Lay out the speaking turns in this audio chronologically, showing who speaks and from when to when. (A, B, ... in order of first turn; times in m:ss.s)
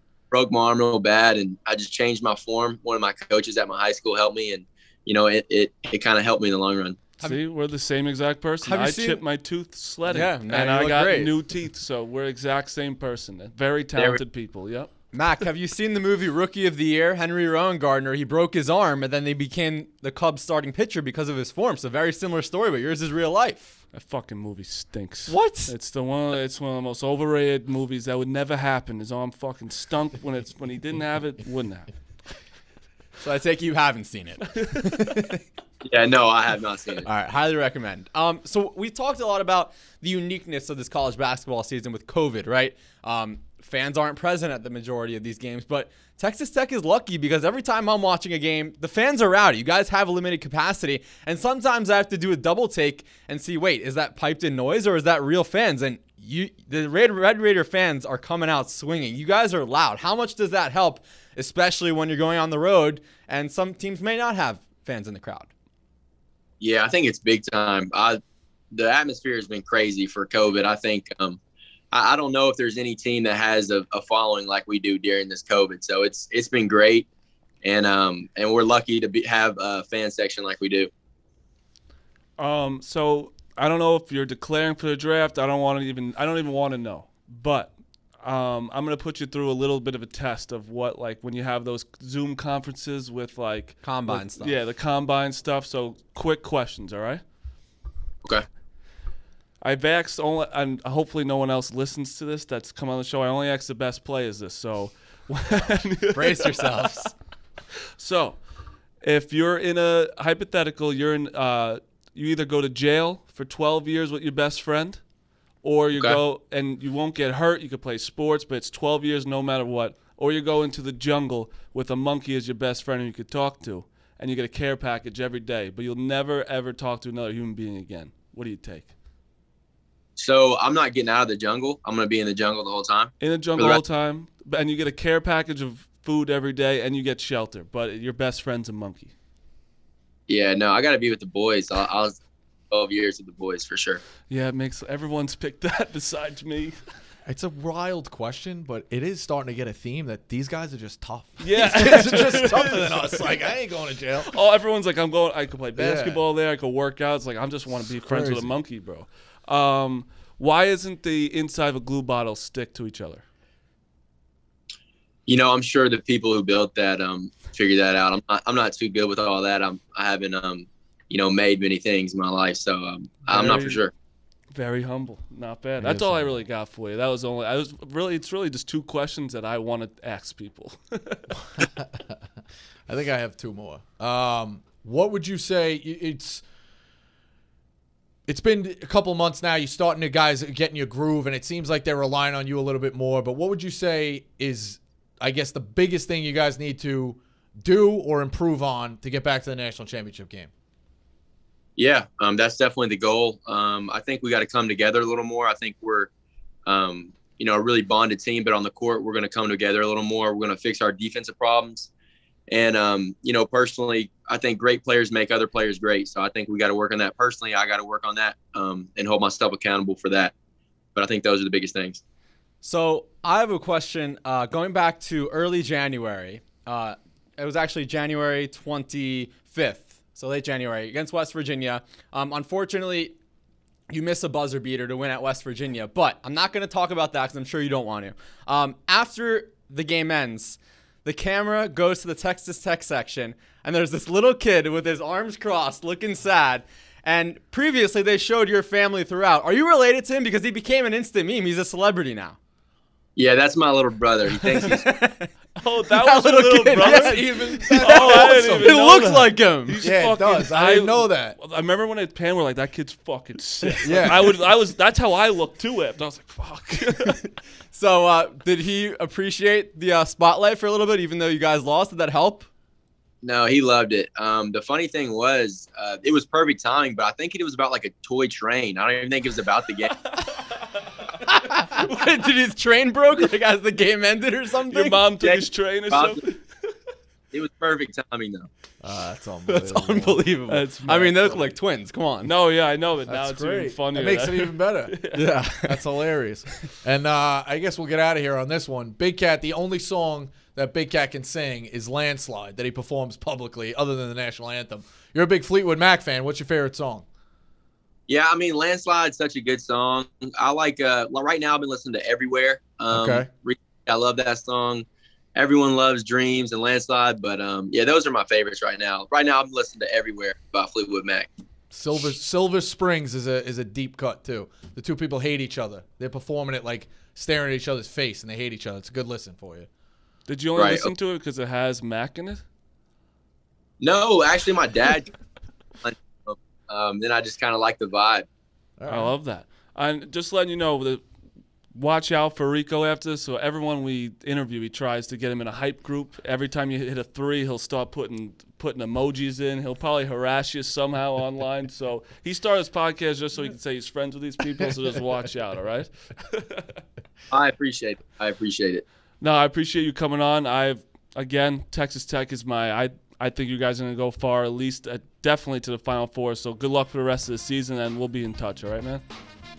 0:00.3-0:07.0 A
0:07.2-0:14.9 B
0:08.6-0:09.2 C
0:10.1-0:11.3 C
0:14.0-0:14.2 A
0:15.1-0:23.8 C
0:23.9-0:31.9 B
0:25.3-0:25.7 C
0:33.2-0:35.4 C
0:34.6-0:35.3 B
0:35.8-0:37.1 A
0:37.0-1:05.5 C
1:06.6-1:08.2 A
1:08.7-1:11.4 A
1:11.9-1:17.1 A
1:17.6-1:20.9 A
1:22.4-1:37.2 B
1:33.8-1:34.6 C
1:39.6-1:47.1 B
1:46.1-1:47.1 C
1:48.0-1:48.4 B
1:49.0-1:55.0 B
1:55.6-2:08.9 B
2:10.2-2:13.8 A
2:13.2-2:19.1 B
2:20.3-2:22.2 A
2:22.7-2:24.0 A
2:24.3-2:26.8 B
2:27.3-2:34.3 D
2:31.4-2:33.3 B
2:34.3-2:43.2 B
2:35.8-2:36.2 D
2:38.0-2:38.5 D
2:45.3-2:53.9 A
2:53.3-2:53.9 B
2:54.5-3:01.4 B
2:55.8-2:56.3 D
3:01.8-3:02.2 D
3:02.9-3:06.4 D
3:08.3-3:20.5 D
3:21.8-3:26.1 A
3:26.7-3:31.9 A
3:32.5-3:40.3 A
3:41.0-3:42.0 A
3:42.6-3:53.2 C
3:53.9-4:12.4 C
4:13.2-4:14.9 A
4:14.5-4:15.3 C
4:15.6-4:27.2 B
4:16.0-4:19.8 C
4:16.8-4:18.8 D
4:19.8-4:21.4 D
4:23.8-4:24.2 D
4:27.7-4:32.5 C
4:33.2-4:40.0 A
4:41.2-4:45.0 C
4:44.7-4:46.7 B
4:45.2-4:46.2 A
4:47.3-4:48.5 A
4:48.8-4:50.3 D
4:49.5-4:52.3 C
4:50.5-4:51.4 B
4:52.2-4:55.3 B
4:53.1-5:07.0 D
4:55.1-4:55.8 C
5:08.1-5:14.8 A
5:12.9-5:13.3 D
5:15.4-5:21.3 A
5:21.7-5:29.7 D
5:30.3-5:32.4 B
5:30.6-5:30.9 A
5:33.8-5:35.1 A
5:35.8-5:38.3 A
5:38.8-5:39.2 D
5:38.9-5:41.0 B
5:41.7-5:56.8 B
5:57.3-5:58.8 A
5:59.2-6:09.0 B